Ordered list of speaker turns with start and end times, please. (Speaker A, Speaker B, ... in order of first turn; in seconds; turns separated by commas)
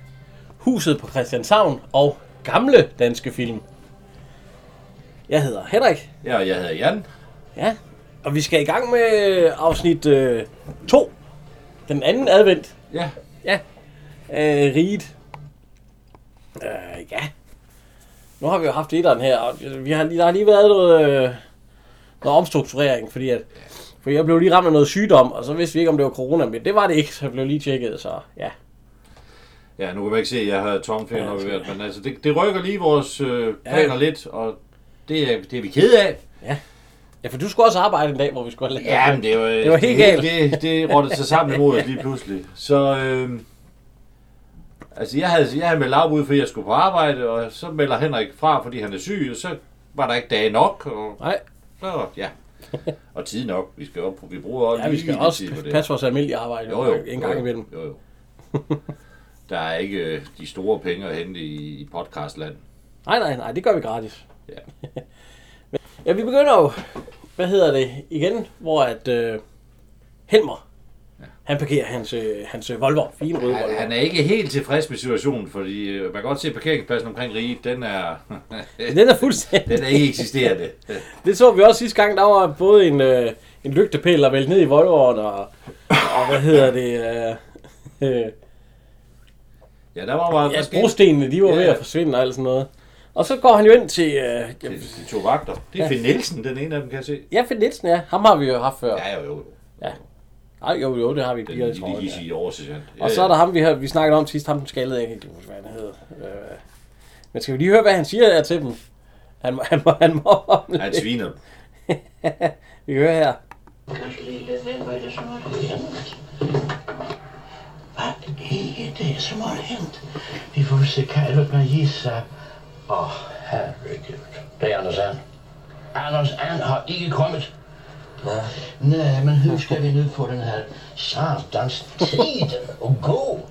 Speaker A: 0.6-3.6, Speaker A: 5.3-6.1, Speaker B: 6.2-7.0, Speaker A: 7.5-11.1, Speaker A: 11.9-12.7, Speaker A: 14.3-15.1, Speaker A: 16.6-17.3, Speaker A: 18.4-21.4, Speaker A: 22.2-23.4, Speaker A: 24.0-28.5, Speaker B: 29.8-36.2, Speaker A: 31.2-31.6, Speaker A: 33.6-33.9, Speaker A: 37.2-41.1, Speaker B: 38.8-43.4, Speaker B: 44.9-51.2, Speaker B: 51.8-52.3, Speaker B: 53.1-55.9, Speaker A: 54.7-57.7, Speaker B: 56.7-58.0, Speaker B: 59.5-62.6, Speaker A: 63.0-64.2, Speaker A: 66.0-69.4, Speaker A: 70.3-70.6, Speaker A: 71.5-73.9, Speaker B: 73.4-81.1, Speaker A: 78.8-80.1, Speaker A: 81.2-87.4, Speaker A: 88.0-88.3, Speaker B: 89.9-91.8, Speaker A: 90.5-95.0, Speaker B: 94.6-97.3, Speaker A: 97.3-99.0, Speaker B: 98.9-100.0, Speaker A: 100.6-102.2, Speaker B: 101.5-103.4, Speaker A: 103.0-106.6, Speaker A: 107.3-108.8, Speaker A: 109.4-111.0, Speaker B: 110.8-111.4, Speaker A: 111.9-113.4, Speaker C: 119.0-119.8, Speaker C: 120.5-122.2, Speaker C: 123.0-125.2, Speaker C: 126.0-127.5, Speaker C: 128.8-133.3